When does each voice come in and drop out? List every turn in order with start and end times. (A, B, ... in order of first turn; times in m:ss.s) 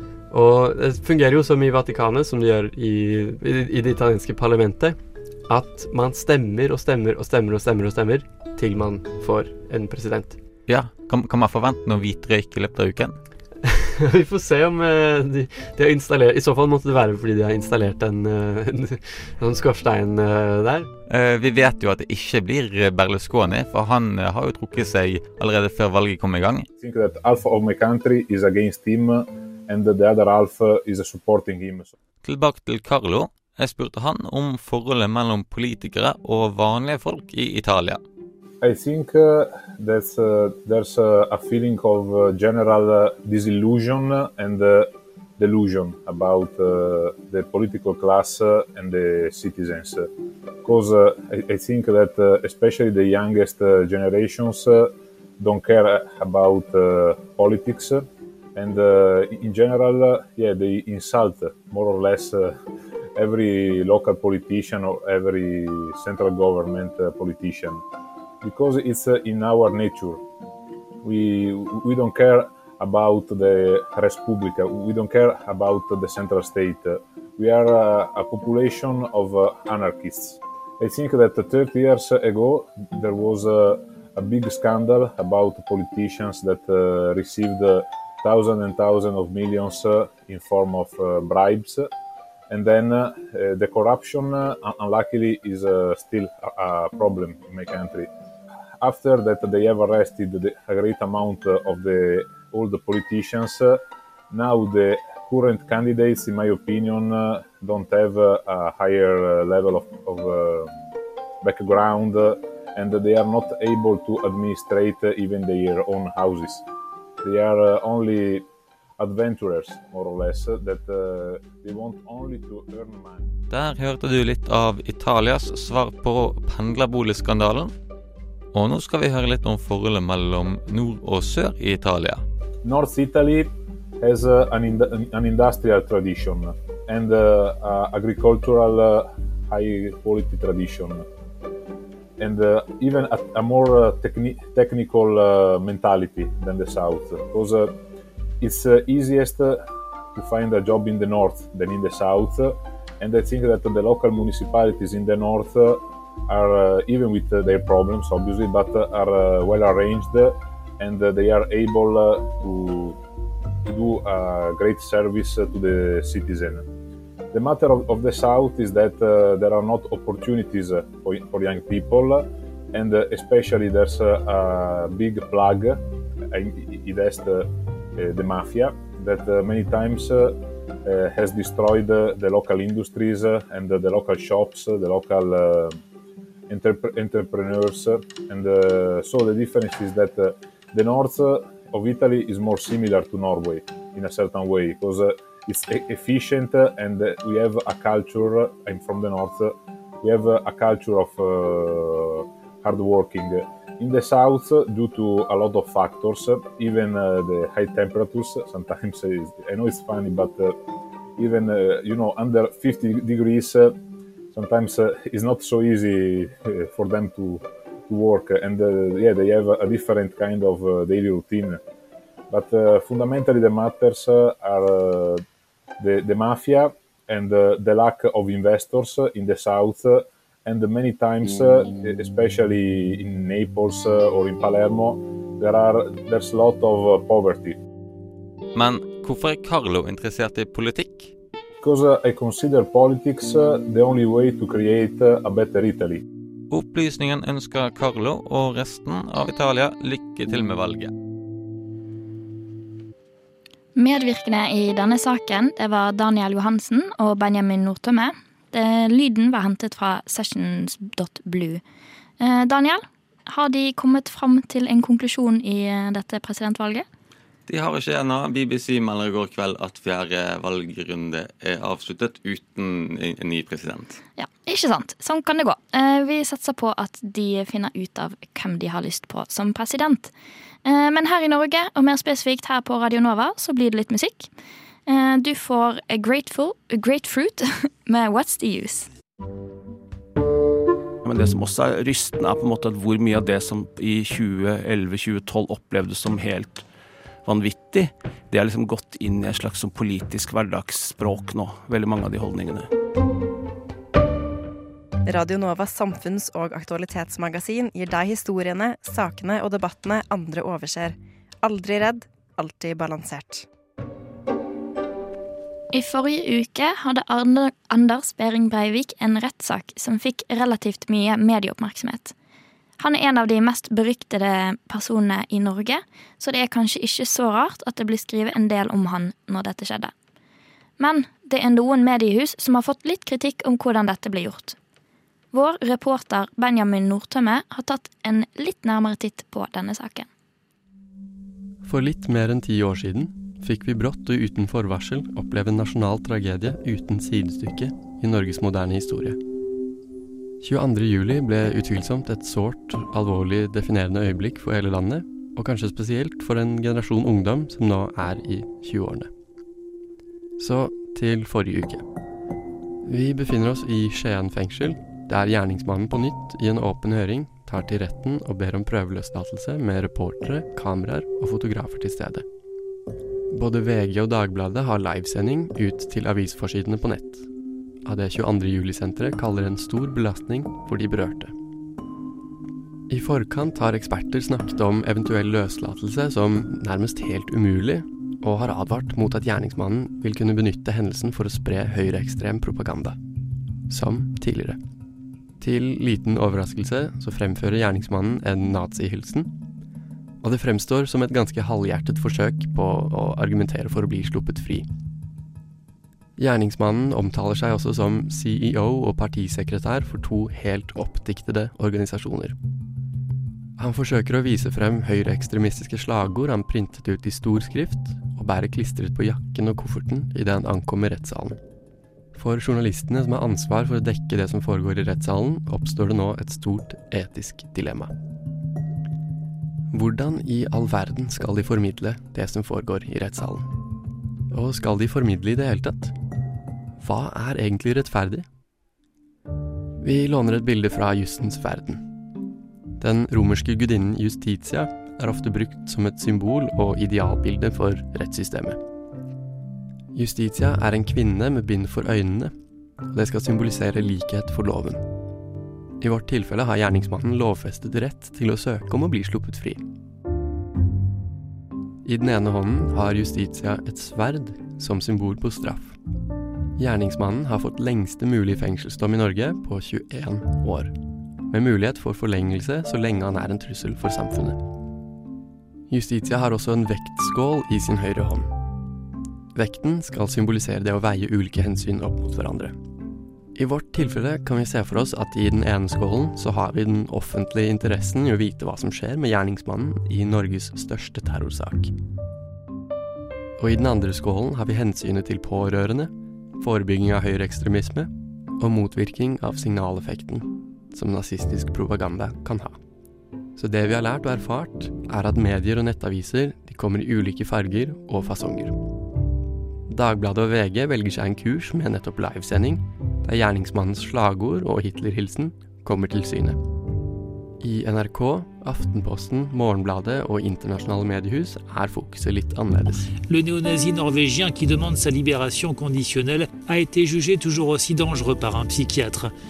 0:00.3-0:10.4 A
0:10.7-0:13.2 B
0:14.0-0:20.9 A
0:21.1-0:26.7 B
0:26.8-0:31.9 C
0:32.2-0:38.0 B
0:38.6-0:50.1 C
0:50.6-1:02.5 C
1:03.2-1:07.8 C
1:08.4-1:10.2 C
1:11.0-1:31.9 C
1:32.5-1:38.1 C
1:38.8-1:43.8 C
1:44.3-1:50.7 C
1:51.4-1:56.6 C
1:57.2-1:58.4 C
1:59.0-2:03.3 C
2:03.5-2:07.7 B
2:08.5-2:12.2 B
2:12.6-2:21.0 C
2:22.2-2:27.7 C
2:28.4-2:29.6 C
2:30.1-2:43.0 C
2:43.6-2:46.6 C
2:47.3-3:05.8 C
3:06.5-3:30.6 C
3:31.2-3:33.7 C
3:34.3-3:41.6 C
3:42.3-3:45.2 C
3:45.8-3:57.6 C
3:58.5-4:01.1 B
4:01.6-4:06.0 C
4:06.5-4:10.9 B
4:13.8-4:21.6 D
4:22.2-4:26.8 D
4:27.5-4:34.0 B
4:34.2-4:40.1 D
4:40.6-4:44.3 D
4:44.9-4:48.9 D
4:51.0-4:56.7 E
4:57.2-5:02.7 E
5:05.0-5:13.4 F
5:15.7-5:22.1 D
5:22.8-5:29.9 D
5:30.8-5:34.6 D
5:35.3-5:40.1 D
5:41.6-5:49.2 G
5:50.4-5:59.1 G
6:00.4-6:01.8 G
6:02.8-6:12.2 G
6:13.3-6:17.3 G
6:17.8-6:21.3 G
6:22.9-6:33.0 G
6:33.7-6:34.6 G
6:35.4-6:39.3 G
6:40.2-6:44.7 G
6:46.2-6:52.4 G
6:53.6-7:01.4 G
7:02.1-7:07.9 G
7:09.7-7:13.6 G
7:14.3-7:15.9 G
7:16.8-7:18.3 G
7:19.8-7:22.0 G
7:22.8-7:28.6 G
7:29.9-7:32.3 G
7:32.9-7:34.8 G
7:35.8-7:39.6 G
7:41.8-7:45.8 G
7:46.6-7:50.8 G
7:51.3-7:54.4 G
7:55.7-7:58.3 G
7:59.3-8:02.6 G
8:03.3-8:11.7 G
8:13.4-8:22.6 G
8:23.4-8:28.6 G
8:29.7-8:36.4 G
8:37.4-8:42.9 G
8:43.0-8:49.1 H